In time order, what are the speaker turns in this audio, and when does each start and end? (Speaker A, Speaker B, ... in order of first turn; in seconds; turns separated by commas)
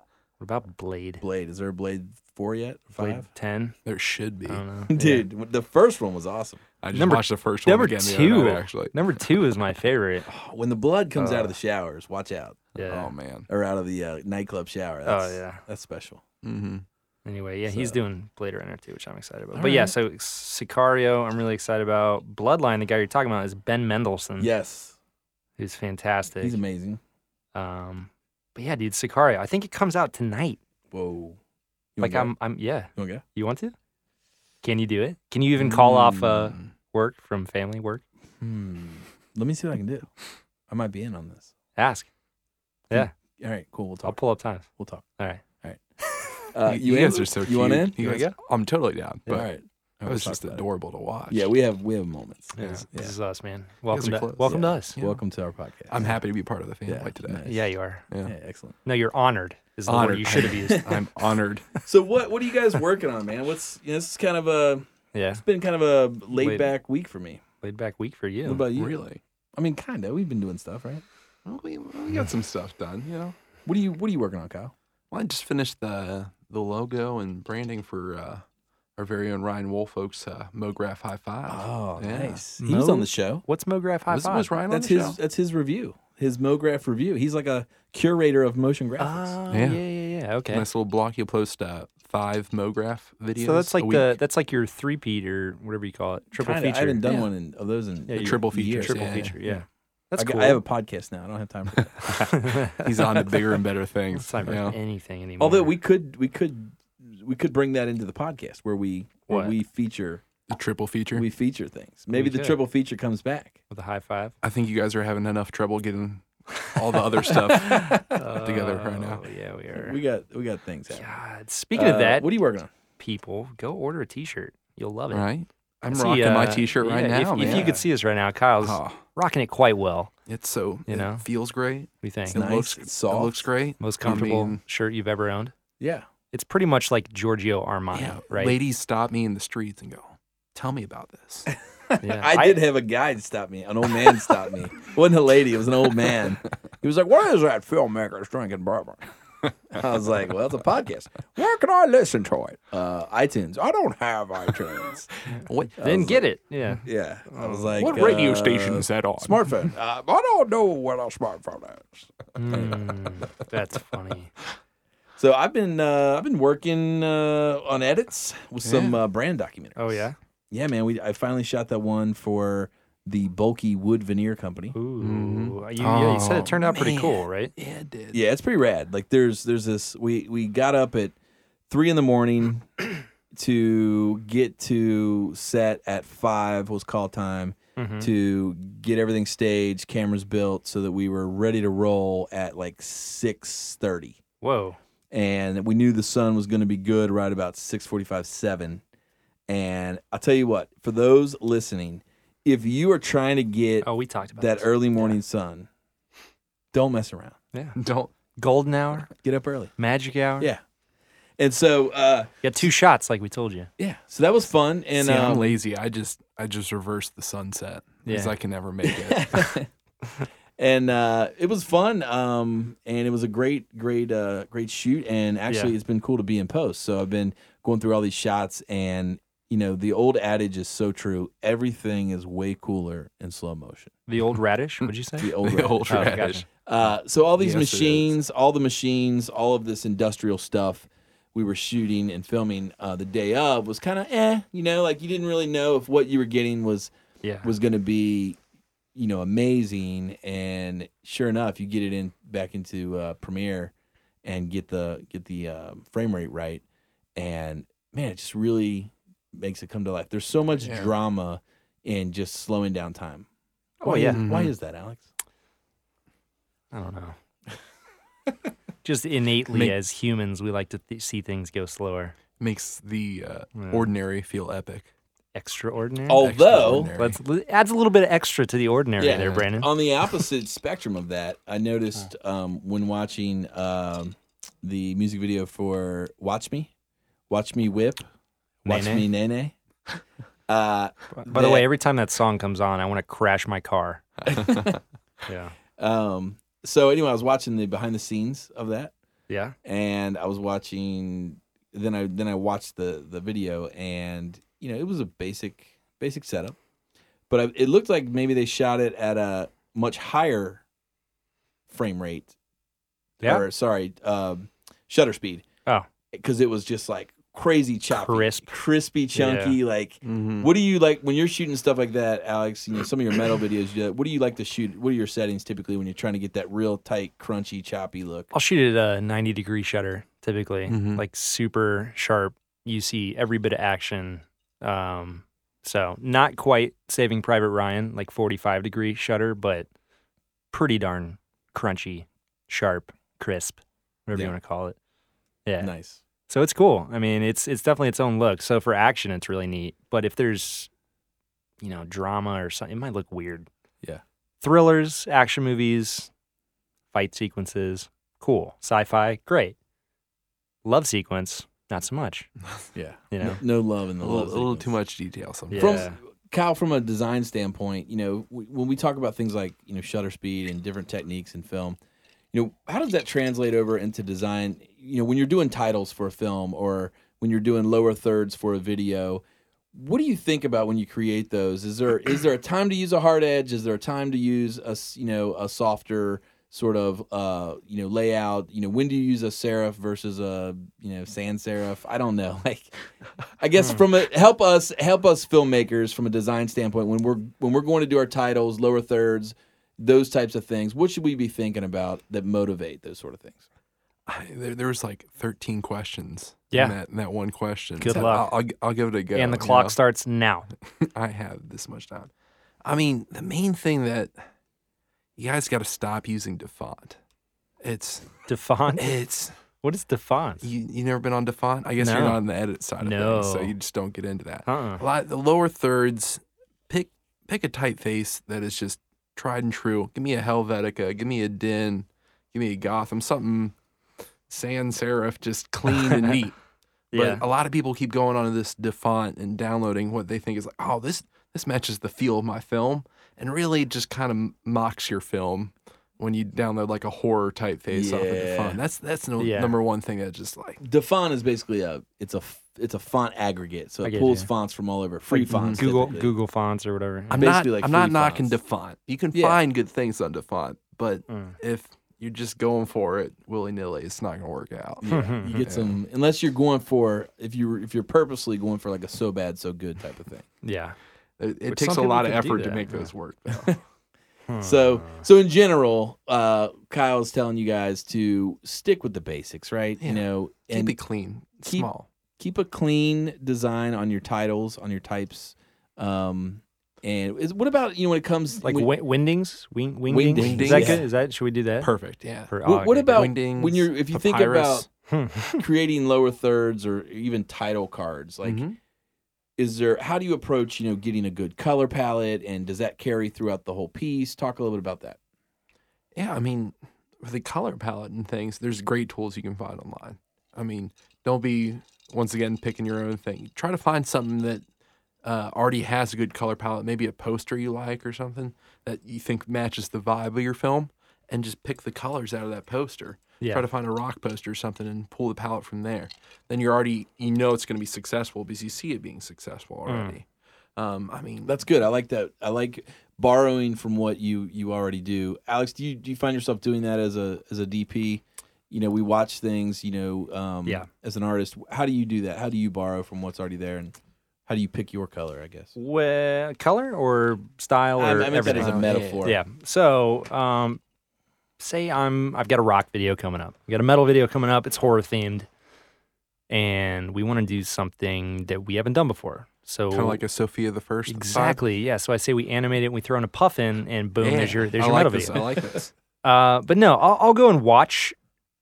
Speaker A: 0.4-1.2, Speaker B: 1.2-3.3, Speaker A: 3.0-3.8, Speaker C: 3.9-4.6, Speaker A: 4.5-5.2, Speaker B: 4.9-6.6, Speaker C: 6.8-9.3, Speaker A: 6.9-10.3, Speaker B: 10.3-12.6, Speaker A: 11.2-11.5, Speaker A: 12.8-13.1, Speaker C: 12.8-13.5, Speaker B: 13.5-16.2, Speaker A: 15.1-15.6, Speaker C: 16.4-16.9, Speaker A: 17.2-24.5, Speaker B: 17.7-18.0, Speaker B: 19.6-19.9, Speaker B: 24.4-25.0, Speaker A: 25.6-26.6, Speaker B: 26.4-27.0, Speaker A: 27.6-30.6, Speaker B: 30.9-31.4, Speaker B: 32.0-32.3, Speaker A: 32.0-33.7, Speaker B: 33.0-33.2, Speaker A: 34.6-38.0, Speaker C: 35.6-36.7, Speaker B: 38.4-40.1, Speaker B: 40.7-41.5, Speaker A: 41.8-42.1, Speaker B: 42.9-44.2, Speaker A: 44.0-44.7, Speaker B: 44.8-45.0, Speaker A: 45.2-45.4, Speaker B: 46.5-48.0, Speaker C: 46.6-49.5, Speaker A: 48.0-48.4, Speaker B: 49.3-50.6, Speaker C: 50.0-51.5, Speaker B: 51.3-53.1, Speaker A: 52.6-55.0, Speaker C: 53.9-55.2, Speaker B: 54.4-56.2, Speaker C: 55.9-57.5, Speaker B: 56.9-57.6, Speaker A: 57.5-58.0, Speaker B: 58.2-58.8, Speaker A: 58.9-60.9, Speaker C: 59.9-61.8, Speaker B: 60.8-61.0, Speaker B: 61.9-67.4, Speaker A: 65.1-65.4, Speaker A: 66.3-66.7, Speaker A: 67.6-68.6, Speaker B: 68.4-69.0, Speaker C: 68.7-69.2, Speaker B: 69.6-71.0, Speaker C: 71.5-73.3, Speaker B: 73.7-74.7, Speaker C: 75.1-78.4, Speaker C: 79.0-82.4, Speaker B: 81.5-83.4, Speaker A: 82.6-84.5, Speaker C: 84.1-85.2, Speaker B: 84.7-89.4, Speaker A: 89.0-90.7, Speaker C: 89.5-89.8, Speaker C: 90.5-94.2, Speaker A: 93.4-97.0, Speaker B: 96.3-99.5, Speaker C: 97.0-97.3, Speaker A: 98.1-100.6, Speaker C: 98.2-99.4, Speaker B: 100.2-102.1, Speaker A: 102.1-103.5, Speaker C: 102.8-104.8, Speaker A: 104.2-105.7, Speaker B: 105.4-110.2, Speaker C: 110.5-111.3, Speaker B: 111.1-113.6, Speaker A: 112.1-112.6, Speaker A: 113.7-114.3, Speaker C: 114.4-119.2, Speaker B: 117.5-118.1, Speaker A: 118.1-120.0, Speaker B: 119.7-121.0, Speaker A: 120.9-122.3, Speaker B: 121.7-122.7, Speaker A: 123.0-125.3, Speaker C: 125.1-127.8, Speaker A: 125.9-130.1, Speaker B: 127.4-127.7, Speaker C: 128.6-129.0, Speaker C: 130.3-134.6, Speaker A: 130.9-131.2, Speaker A: 132.0-132.4, Speaker B: 132.3-133.5, Speaker A: 133.8-135.5, Speaker B: 135.8-136.1, Speaker A: 136.3-138.6, Speaker C: 137.9-141.5, Speaker B: 141.9-149.1, Speaker A: 142.0-142.6, Speaker B: 149.7-155.1, Speaker C: 155.3-155.8, Speaker A: 155.3-158.2, Speaker B: 155.8-156.3, Speaker B: 156.8-162.9, Speaker C: 157.8-159.4, Speaker A: 162.4-164.3, Speaker B: 165.2-174.8, Speaker C: 168.6-169.0, Speaker A: 169.8-170.2, Speaker A: 174.7-177.5, Speaker C: 175.0-178.2, Speaker B: 178.1-181.2, Speaker B: 181.7-194.2, Speaker A: 187.8-188.1, Speaker A: 194.4-194.8, Speaker B: 195.1-198.8, Speaker B: 199.5-205.7, Speaker A: 203.8-205.2, Speaker B: 206.7-207.4, Speaker A: 207.5-207.8, Speaker C: 207.8-208.1, Speaker A: 208.4-209.1, Speaker B: 209.2-209.7, Speaker A: 209.8-210.5, Speaker B: 211.4-212.7, Speaker A: 212.4-213.7, Speaker B: 213.8-215.5, Speaker C: 215.0-219.5, Speaker A: 218.1-218.3, Speaker B: 218.9-219.7, Speaker B: 220.6-233.9, Speaker A: 225.5-225.7, Speaker A: 234.1-235.4, Speaker C: 234.8-236.4, Speaker B: 235.2-246.9, Speaker A: 235.9-236.4, Speaker C: 237.4-238.1, Speaker A: 247.2-247.5, Speaker B: 247.4-248.4, Speaker B: 248.9-253.7, Speaker B: 254.2-256.6, Speaker B: 257.2-263.3, Speaker C: 260.6-260.9, Speaker B: 263.8-265.1, Speaker A: 263.8-264.2, Speaker C: 264.1-264.5, Speaker A: 266.7-267.2, Speaker A: 268.8-272.1, Speaker C: 269.5-269.8, Speaker C: 272.4-274.9, Speaker A: 273.6-273.9, Speaker A: 275.4-279.7, Speaker B: 276.1-276.9, Speaker C: 276.2-277.2, Speaker B: 279.0-286.7, Speaker C: 279.2-279.4, Speaker B: 287.3-288.0, Speaker A: 288.6-289.1, Speaker B: 288.6-289.5, Speaker B: 290.5-291.7, Speaker A: 291.1-294.5, Speaker B: 294.3-294.8, Speaker A: 295.3-295.6, Speaker B: 295.8-298.9, Speaker A: 299.3-299.6, Speaker B: 299.6-306.6, Speaker B: 307.3-310.6, Speaker B: 311.7-312.3, Speaker B: 313.2-315.5, Speaker B: 316.1-328.3, Speaker A: 317.9-318.5, Speaker A: 319.1-319.6, Speaker C: 320.0-320.5, Speaker A: 328.3-339.7, Speaker C: 330.7-331.0, Speaker A: 340.5-344.8, Speaker A: 345.5-345.7, Speaker B: 345.6-346.0, Speaker A: 346.3-350.7, Speaker A: 351.6-353.5, Speaker A: 354.4-356.1, Speaker A: 356.9-359.6, Speaker A: 360.6-362.3, Speaker B: 362.8-364.7, Speaker A: 363.1-363.4, Speaker C: 364.0-365.9, Speaker A: 365.5-366.0, Speaker B: 365.6-371.8, Speaker B: 372.3-379.2, Speaker B: 379.7-392.8, Speaker B: 393.4-403.4, Speaker C: 404.1-409.8, Speaker A: 407.8-408.3, Speaker A: 409.1-410.5, Speaker C: 410.8-412.1, Speaker C: 412.6-414.2, Speaker C: 415.2-417.0, Speaker C: 417.6-418.3, Speaker A: 418.3-419.0, Speaker C: 418.8-419.3, Speaker A: 419.6-420.4, Speaker C: 420.4-433.6, Speaker A: 421.8-422.2, Speaker A: 422.8-423.5, Speaker A: 424.5-424.8, Speaker C: 434.3-436.4, Speaker A: 436.9-437.2, Speaker C: 436.9-450.6, Speaker B: 447.7-448.6, Speaker A: 449.2-449.6, Speaker B: 450.6-456.1, Speaker A: 453.8-454.3, Speaker C: 455.1-455.7, Speaker A: 455.6-457.3, Speaker C: 457.1-464.9, Speaker B: 457.1-458.4, Speaker B: 459.1-459.4, Speaker A: 461.1-461.4, Speaker B: 464.8-470.3, Speaker A: 464.9-465.4, Speaker C: 465.4-465.8, Speaker A: 470.4-470.8, Speaker C: 471.2-473.6, Speaker A: 471.5-472.9, Speaker A: 474.3-475.1, Speaker B: 474.4-480.8, Speaker C: 479.8-481.9, Speaker B: 481.5-488.7, Speaker A: 488.4-491.7, Speaker B: 489.9-490.9, Speaker C: 490.1-490.9, Speaker C: 491.6-492.4, Speaker A: 492.3-493.1, Speaker B: 492.4-494.7, Speaker C: 492.9-494.7, Speaker A: 494.9-495.4, Speaker B: 495.4-498.4, Speaker C: 498.2-498.6, Speaker B: 499.4-505.0, Speaker C: 505.9-514.4, Speaker C: 515.0-530.1, Speaker A: 529.7-530.0, Speaker C: 530.6-531.4, Speaker B: 531.3-543.8, Speaker B: 544.3-545.5, Speaker A: 545.6-550.6, Speaker B: 547.8-549.2, Speaker C: 548.3-549.0, Speaker A: 551.4-555.3, Speaker A: 556.3-560.0, Speaker C: 559.7-561.4, Speaker A: 560.9-565.3, Speaker C: 564.0-565.7, Speaker A: 566.0-568.0